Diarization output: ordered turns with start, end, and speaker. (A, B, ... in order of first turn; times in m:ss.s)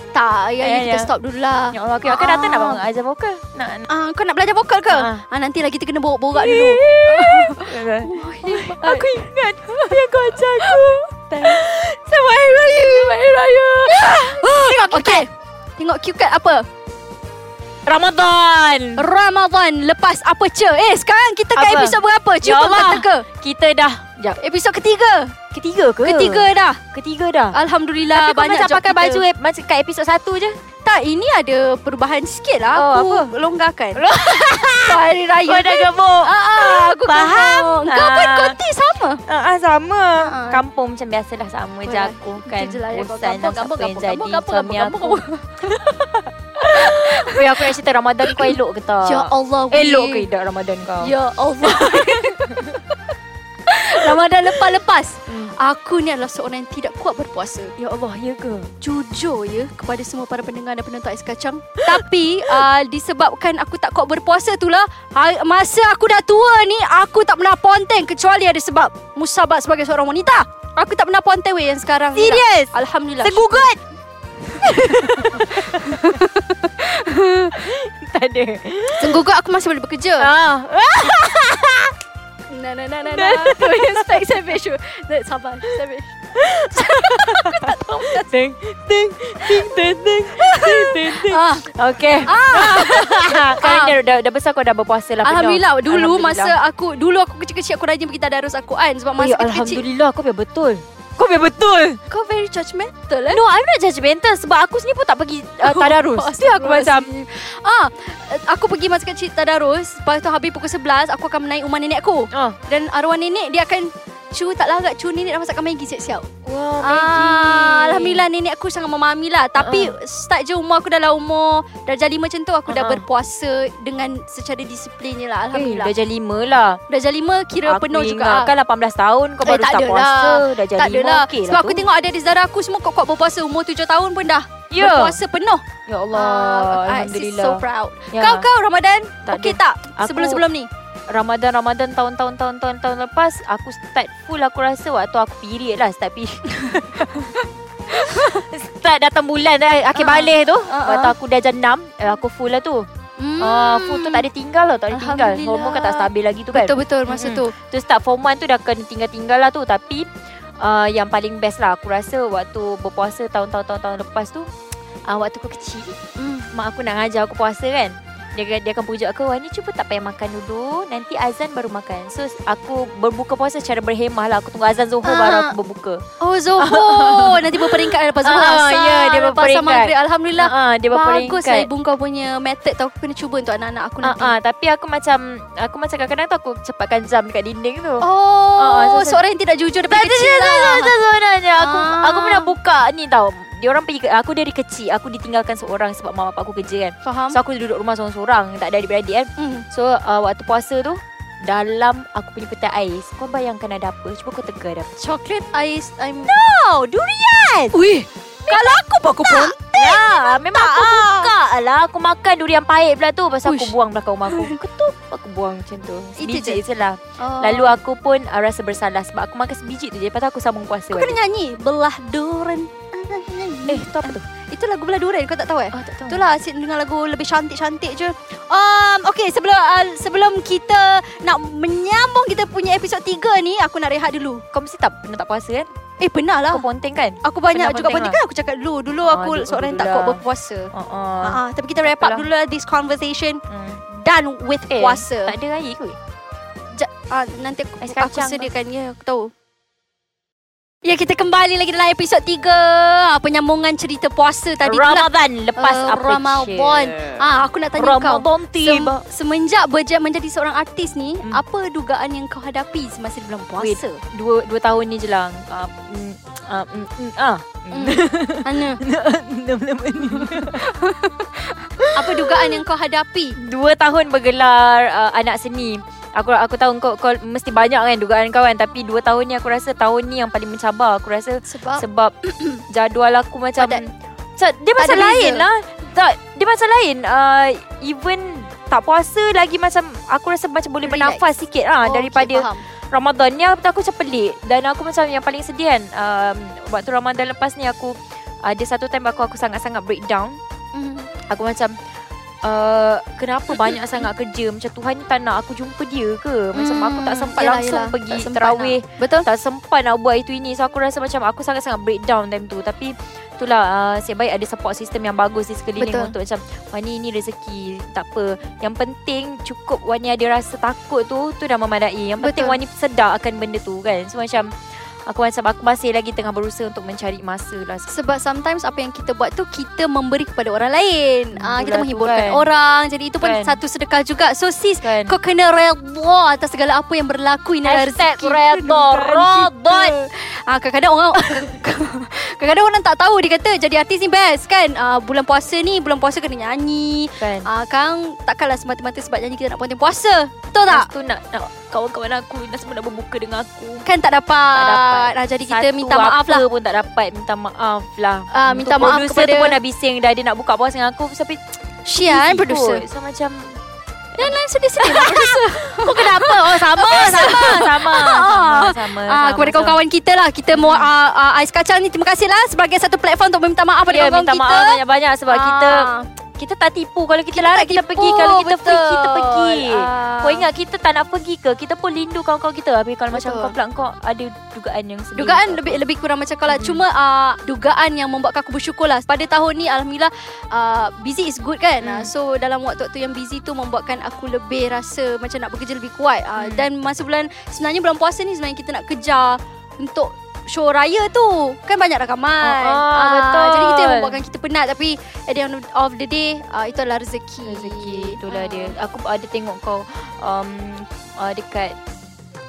0:00.1-0:02.8 A
0:00.6-0:01.1 B
0:01.7-0:03.9 B
0:03.9-0:10.9 A
0:04.9-0:05.2 B
0:06.4-0:15.3 B
0:12.6-0:16.7 A
0:17.9-0:19.0 B
0:19.0-0:23.2 A
0:21.5-0:24.4 B
0:24.4-0:25.4 A
0:25.5-0:27.6 B
0:26.0-0:26.8 A
0:27.5-0:29.3 A
0:28.1-0:30.6 B
0:30.8-0:34.0 A
0:32.7-0:33.3 B
0:34.0-0:38.6 B
0:34.8-0:39.2 A
0:39.3-0:52.7 B
0:40.2-0:40.6 A
0:41.8-0:45.8 A
0:46.6-0:47.7 A
0:48.2-0:50.3 A
0:51.0-0:53.0 A
0:53.7-0:57.7 A
0:54.0-0:54.7 B
0:55.3-0:55.5 B
0:57.8-0:58.7 B
0:58.8-1:13.7 A
1:01.9-1:02.6 B
1:12.2-1:13.8 B
1:14.5-1:17.6 A
1:14.6-1:16.2 B
1:17.5-1:19.2 B
1:19.0-1:20.3 A
1:20.2-1:22.0 B
1:22.5-1:26.2 A
1:23.1-1:24.3 B
1:26.4-1:36.6 B
1:26.7-1:28.3 A
1:30.4-1:31.7 A
1:32.2-1:34.0 A
1:35.2-1:39.8 A
1:39.2-1:42.0 B
1:42.1-1:43.4 A
1:43.3-1:47.1 B
1:45.6-1:56.3 A
1:52.3-1:52.6 B
1:56.4-1:58.3 B
1:56.8-2:06.0 A
1:59.6-1:59.9 B
2:02.7-2:03.0 B
2:05.5-2:06.8 B
2:06.9-2:08.5 A
2:07.6-2:11.9 B
2:09.4-2:20.7 A
2:14.7-2:15.2 B
2:15.9-2:18.5 B
2:19.3-2:20.4 B
2:21.1-2:27.3 B
2:26.7-2:27.2 A
2:27.9-2:32.9 B
2:27.9-2:28.4 A
2:29.9-2:31.2 A
2:33.2-2:34.2 A
2:33.4-2:40.1 B
2:34.9-2:37.5 A
2:40.6-2:44.5 B
2:45.1-2:46.0 B
2:46.2-2:46.5 A
2:46.5-2:56.0 B
2:55.0-2:55.6 A
2:56.2-3:04.4 A
2:56.6-3:01.7 B
3:04.0-3:09.2 B
3:08.0-3:11.0 A
3:09.9-3:24.9 B
3:11.6-3:12.6 A
3:17.0-3:17.4 A
3:19.4-3:19.7 A
3:25.0-3:26.4 A
3:26.2-3:27.8 B
3:27.7-3:31.3 A
3:28.5-3:41.2 B
3:33.4-3:33.8 A
3:34.3-3:34.6 A
3:36.2-3:36.6 A
3:37.2-3:37.8 A
3:40.9-3:54.4 A
3:43.7-3:44.2 B
3:45.7-3:46.2 B
3:54.5-3:55.7 B
3:56.0-3:56.7 A
3:56.5-3:58.2 B
3:57.2-4:05.4 A
3:59.0-4:00.2 B
4:00.7-4:02.3 B
4:03.5-4:03.8 B
4:04.7-4:06.0 B
4:06.8-4:09.3 A
4:07.8-4:08.5 B
4:10.8-4:24.0 A
4:14.6-4:19.0 B
4:23.6-4:30.7 B
4:27.7-4:28.8 A
4:30.0-4:33.4 A
4:31.8-4:32.6 B
4:33.4-4:43.8 B
4:41.5-4:41.8 A
4:44.4-5:00.4 B
4:44.8-4:45.5 A
4:50.8-4:51.2 A
4:51.8-4:52.7 A
5:00.8-5:01.1 A
5:01.3-5:01.7 B
5:02.4-5:24.5 B
5:06.5-5:09.3 A
5:15.8-5:16.1 A
5:22.2-5:22.6 A
5:25.1-5:27.9 B
5:27.9-5:50.9 A
5:31.3-5:32.5 B
5:33.2-5:33.6 B
5:34.8-5:35.1 B
5:37.6-5:40.0 B
5:41.2-5:41.5 B
5:47.2-5:47.5 B
5:50.7-5:53.9 B
5:53.8-5:56.4 A
5:54.5-6:01.4 B
5:58.3-5:59.6 A
6:01.9-6:02.8 A
6:02.0-6:03.6 B
6:04.2-6:09.8 B
6:04.2-6:16.1 A
6:10.5-6:10.9 B
6:13.9-6:25.8 B
6:17.3-6:20.5 A
6:23.1-6:23.6 A
6:25.2-6:48.8 A
6:26.5-6:26.8 B
6:31.8-6:32.1 B
6:36.4-6:36.7 B
6:42.4-6:44.2 B
6:47.4-6:51.8 B